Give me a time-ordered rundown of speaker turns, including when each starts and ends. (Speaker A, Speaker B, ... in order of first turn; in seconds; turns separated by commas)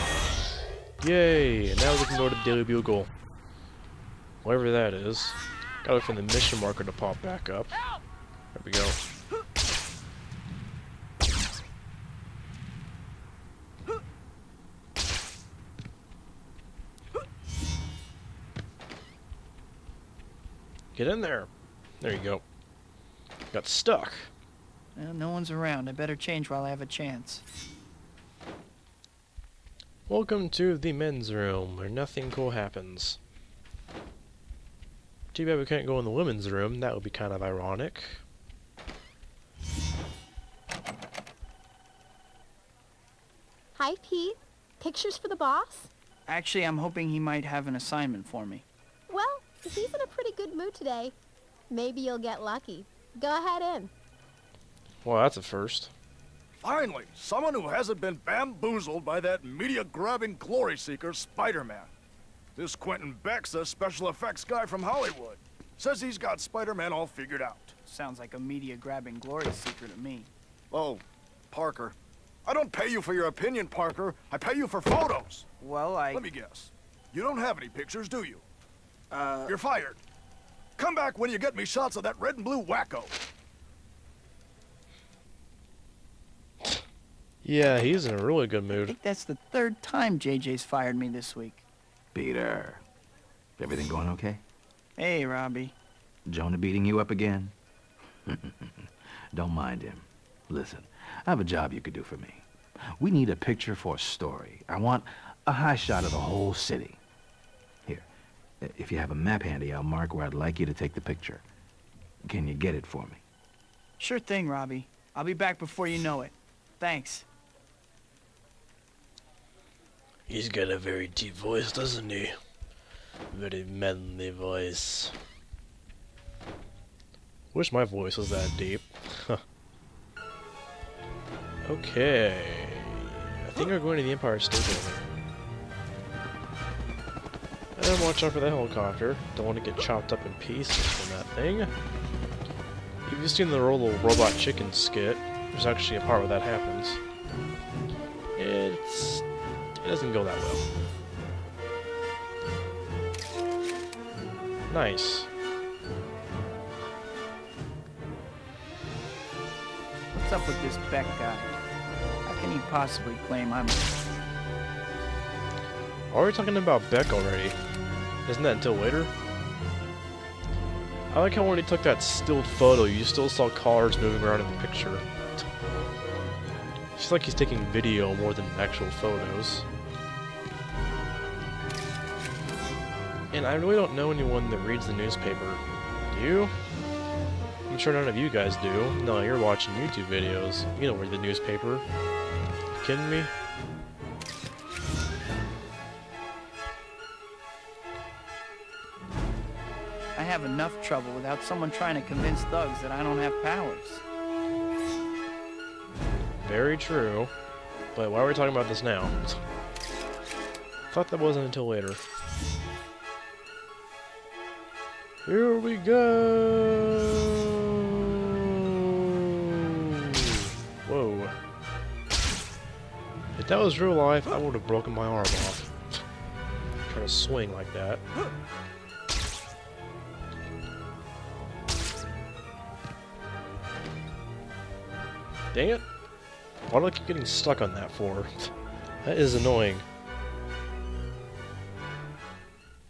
Speaker A: 1.0-3.1, Speaker A: 4.4-7.8, Speaker A: 8.5-9.0, Speaker A: 20.9-21.5, Speaker A: 22.0-22.4, Speaker A: 23.5-24.3, Speaker B: 25.0-27.4, Speaker A: 30.1-33.2, Speaker A: 35.3-38.2, Speaker C: 43.8-45.9, Speaker B: 46.3-48.7, Speaker C: 49.1-51.1, Speaker C: 51.7-53.9, Speaker A: 55.0-55.9, Speaker D: 56.6-61.9, Speaker D: 62.6-67.7, Speaker B: 67.9-70.3, Speaker D: 70.7-75.5, Speaker B: 75.6-76.2, Speaker D: 76.1-78.4, Speaker B: 79.1-79.5, Speaker D: 79.5-80.0, Speaker D: 80.8-83.1, Speaker A: 87.4-89.0, Speaker B: 88.9-91.6, Speaker E: 92.1-92.8, Speaker E: 93.6-94.4, Speaker B: 95.0-95.8, Speaker E: 96.3-97.5, Speaker E: 98.3-102.5, Speaker E: 103.0-107.0, Speaker E: 108.6-111.4, Speaker E: 112.2-113.2, Speaker B: 114.0-117.2, Speaker A: 120.3-122.3, Speaker A: 123.3-125.1, Speaker A: 127.5-129.4, Speaker A: 131.7-135.1, Speaker A: 137.8-141.7, Speaker A: 143.1-147.0, Speaker A: 148.4-149.2, Speaker A: 149.8-150.7, Speaker A: 154.7-155.3, Speaker B: 160.1-161.6, Speaker B: 162.2-163.9, Speaker A: 166.1-167.6, Speaker A: 168.2-169.1, Speaker A: 171.1-175.4, Speaker A: 177.0-179.7, Speaker A: 183.3-186.5, Speaker A: 187.7-191.8, Speaker A: 192.8-193.3, Speaker B: 200.2-204.0, Speaker A: 206.4-207.3, Speaker A: 207.9-209.4, Speaker A: 210.9-212.0, Speaker A: 215.2-221.4, Speaker A: 223.4-226.0, Speaker A: 226.9-228.0, Speaker A: 235.5-235.9, Speaker A: 236.7-239.9